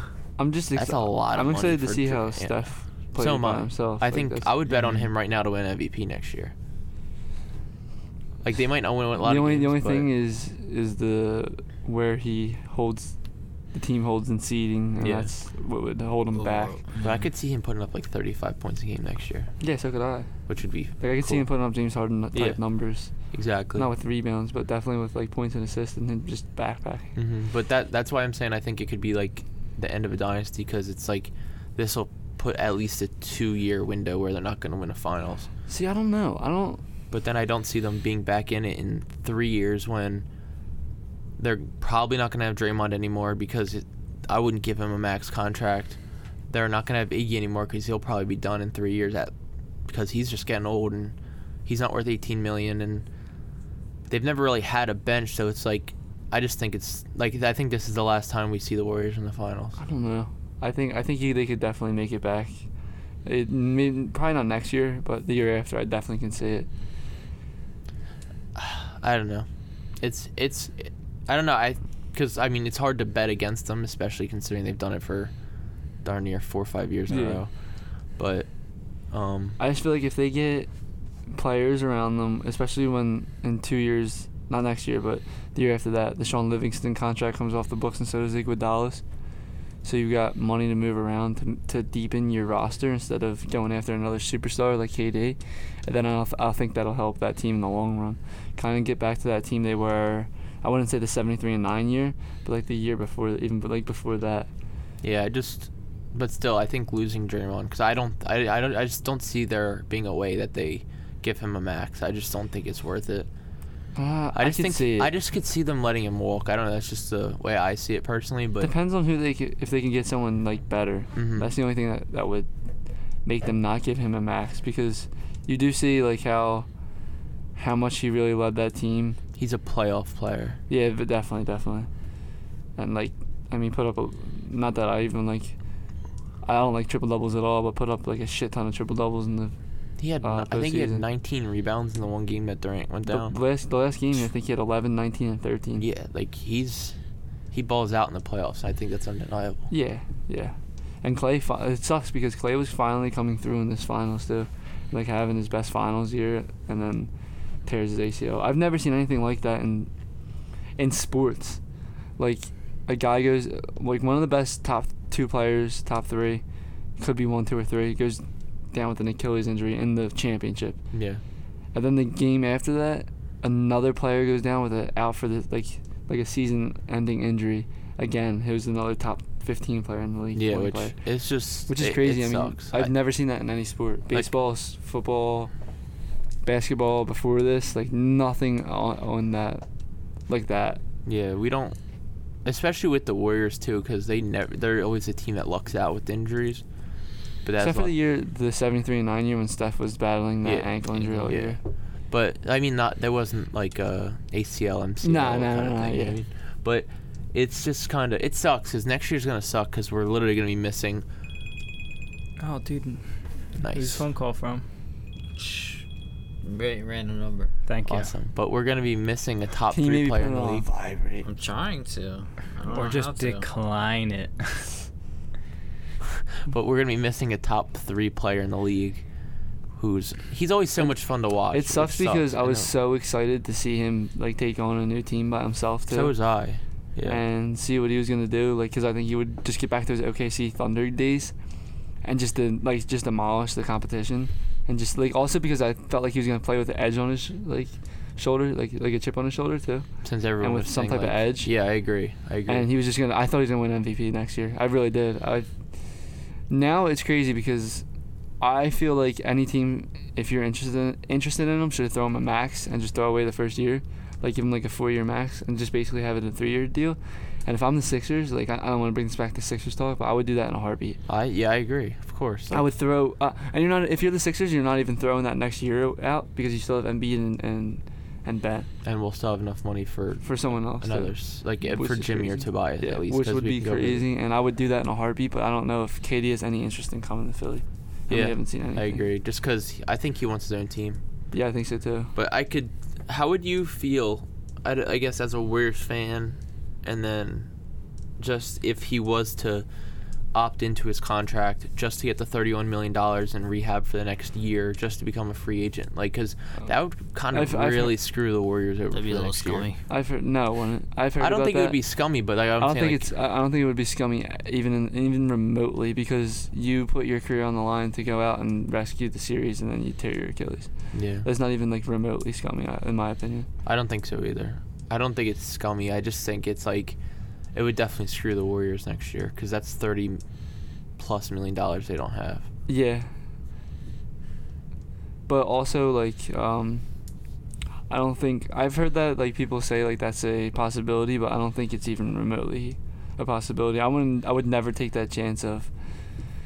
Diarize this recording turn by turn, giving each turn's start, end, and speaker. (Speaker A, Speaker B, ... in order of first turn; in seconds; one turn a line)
Speaker A: 0.4-4.5
Speaker B: 0.8-6.5
Speaker B: 8.4-10.1
Speaker A: 9.2-13.2
Speaker A: 13.7-16.8
Speaker B: 15.0-15.3
Speaker C: 16.3-17.3
Speaker B: 17.0-19.6
Speaker A: 19.6-27.1
Speaker B: 20.5-21.5
Speaker B: 22.3-23.9
Speaker B: 27.1-35.5
Speaker A: 35.7-36.8
Speaker B: 37.1-40.2
Speaker B: 41.4-46.0
Speaker B: 46.5-49.3
Speaker B: 49.9-53.1
Speaker B: 54.1-59.8
Speaker A: 59.8-62.6
Speaker A: 63.2-66.7
Speaker B: 68.5-69.5
Speaker B: 70.0-75.3
Speaker B: 76.0-77.5
Speaker A: 77.1-77.4
Speaker B: 78.1-78.5
Speaker B: 79.1-79.6
Speaker A: 79.6-80.7
Speaker A: 81.3-89.0
Speaker A: 89.8-104.5
Speaker B: 105.0-113.3
Speaker A: 114.0-115.1
Speaker B: 114.3-118.7
Speaker A: 118.6-122.5
Speaker B: 121.2-121.5
Speaker A: 123.2-126.7
Speaker A: 127.6-129.2
Speaker B: 129.4-130.6
Speaker A: 130.7-131.9
Speaker A: 132.8-135.6
Speaker A: 136.4-139.6
Speaker B: 140.0-143.3
Speaker A: 140.2-141.1
Speaker A: 143.0-145.9
Speaker B: 145.8-147.0
Speaker B: 147.5-149.7
Speaker A: 149.7-157.1
Speaker A: 157.7-159.9
Speaker A: 160.8-161.6
Speaker A: 162.2-166.4
Speaker A: 167.0-170.8
Speaker B: 170.9-171.2
Speaker A: 171.7-181.0
Speaker B: 180.3-182.9
Speaker A: 181.7-185.5
Speaker A: 186.4-189.7
Speaker A: 190.3-190.8
Speaker B: 191.1-191.8
Speaker B: 192.4-196.6
Speaker B: 197.4-197.9
Speaker A: 197.6-201.6
Speaker B: 200.4-201.6
Speaker B: 202.1-211.0
Speaker A: 205.0-206.2
Speaker D: 212.4-214.6
Speaker B: 213.6-214.1
Speaker C: 215.4-215.8
Speaker C: 216.4-217.5
Speaker D: 217.7-218.1
Speaker B: 217.9-220.7
Speaker A: 219.7-221.2
Speaker C: 221.2-223.5
Speaker D: 222.7-224.8
Speaker B: 226.4-229.0
Speaker B: 229.8-232.7
Speaker A: 231.5-236.1
Speaker B: 235.9-237.2
Speaker A: 237.0-241.3
Speaker A: 242.0-249.9
Speaker B: 250.0-252.7
Speaker A: 250.4-251.5
Speaker A: 252.5-255.7
Speaker A: 256.5-257.9
Speaker A: 258.4-271.0
Speaker B: 271.1-272.6
Speaker A: 272.5-278.7
Speaker B: 278.8-284.0
Speaker A: 280.2-289.0
Speaker B: 288.1-291.0
Speaker A: 291.3-292.1
Speaker B: 292.1-297.5
Speaker B: 298.2-299.6
Speaker B: 300.3-309.7
Speaker A: 307.3-308.0
Speaker C: 308.9-309.8
Speaker A: 309.9-311.8
Speaker B: 311.2-313.1
Speaker A: 312.6-323.5
Speaker B: 320.9-321.3
Speaker B: 323.6-327.0
Speaker B: 327.5-330.2
Speaker B: 331.0-332.5
Speaker A: 332.7-333.1
Speaker A: 335.3-336.9
Speaker A: 337.9-345.7